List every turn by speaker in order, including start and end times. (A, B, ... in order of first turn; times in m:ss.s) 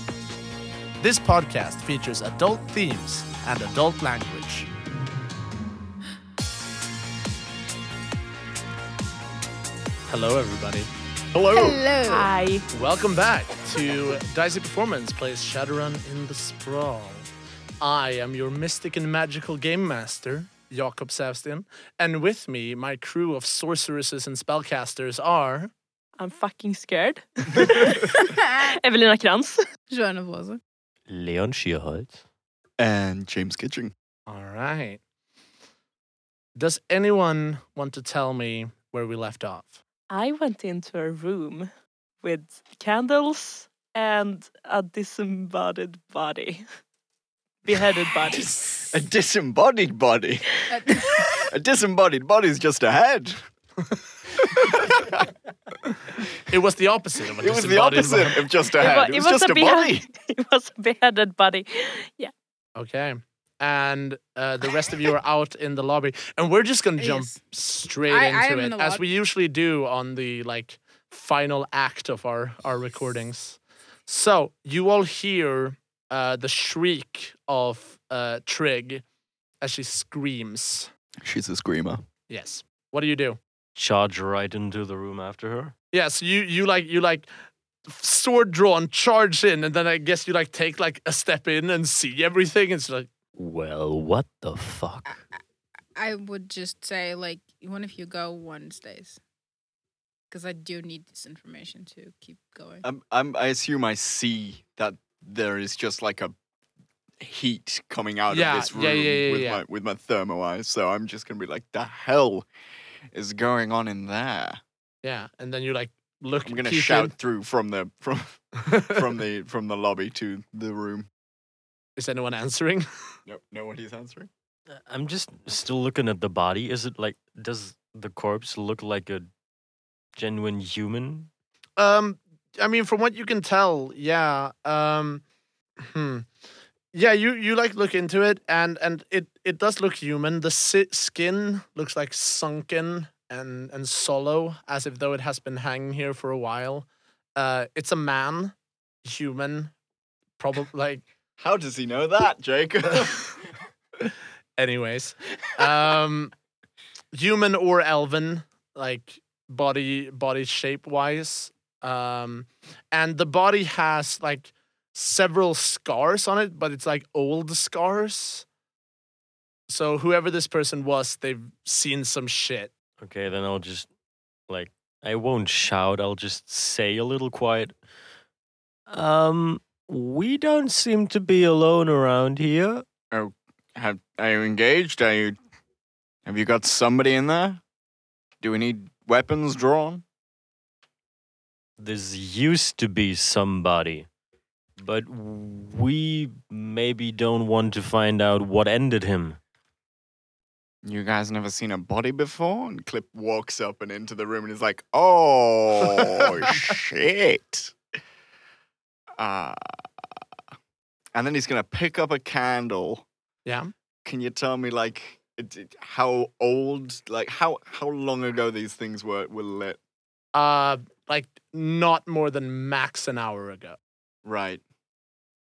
0:01.0-0:04.7 A
0:10.1-0:10.9 A
0:11.4-0:11.8 B
0:11.5-0:12.3 C
0:12.1-0:12.7 D
0:12.7-0:17.3 A
0:17.8-0:25.7 A
0:26.2-0:29.6 D
0:28.2-0:28.4 C
0:29.9-0:30.6 C
0:31.1-0:32.2 E
0:32.8-0:33.9 B
0:34.3-0:35.0 A
0:36.6-0:39.8 A
0:40.1-0:41.7 D
0:42.2-0:46.6 D
0:47.6-0:48.9 D
0:48.3-0:50.6 B
0:50.7-0:51.5 C
0:51.5-0:53.4 B
0:54.4-0:55.2 B
0:56.5-0:58.4 A
0:57.4-1:00.0 B
0:58.8-1:02.3 D
1:02.8-1:19.0 A
1:07.0-1:07.4 C
1:08.1-1:09.0 C
1:19.6-1:20.9 A
1:21.2-1:22.0 B
1:22.3-1:23.4 A
1:23.8-1:25.7 E
1:25.9-1:27.3 A
1:27.9-1:33.1 A
1:33.4-1:35.1 E
1:35.1-1:35.4 C
1:36.0-1:39.2 C
1:40.3-1:42.8 C
1:42.8-1:46.4 B
1:47.2-1:52.5 B
1:48.3-1:49.6 A
1:53.1-1:54.6 B
1:55.0-1:57.1 A
1:56.5-2:01.1 B
1:58.7-1:59.0 A
2:02.0-2:02.9 A
2:03.3-2:04.3 B
2:04.9-2:09.3 E
2:10.2-2:11.3 E
2:11.8-2:15.2 A
2:15.8-2:16.3 A
2:16.9-2:28.5 A
2:29.0-2:29.7 A
2:30.4-2:31.1 A
2:31.4-2:33.3 B
2:34.6-2:36.3 A
2:37.1-2:48.5 A
2:49.7-2:52.7 A
2:53.0-2:53.9 E
2:54.5-2:57.8 E
2:58.9-3:02.8 E
3:03.1-3:05.4 B
3:06.2-3:07.6 B
3:08.4-3:10.0 B
3:11.8-3:14.1 E
3:14.8-3:19.4 E
3:20.8-3:27.8 B
3:26.0-3:26.3 A
3:29.2-3:29.8 B
3:31.1-3:33.1 B
3:33.4-3:33.7 A
3:34.0-3:39.8 B
3:40.3-3:43.8 A
3:44.2-3:44.6 B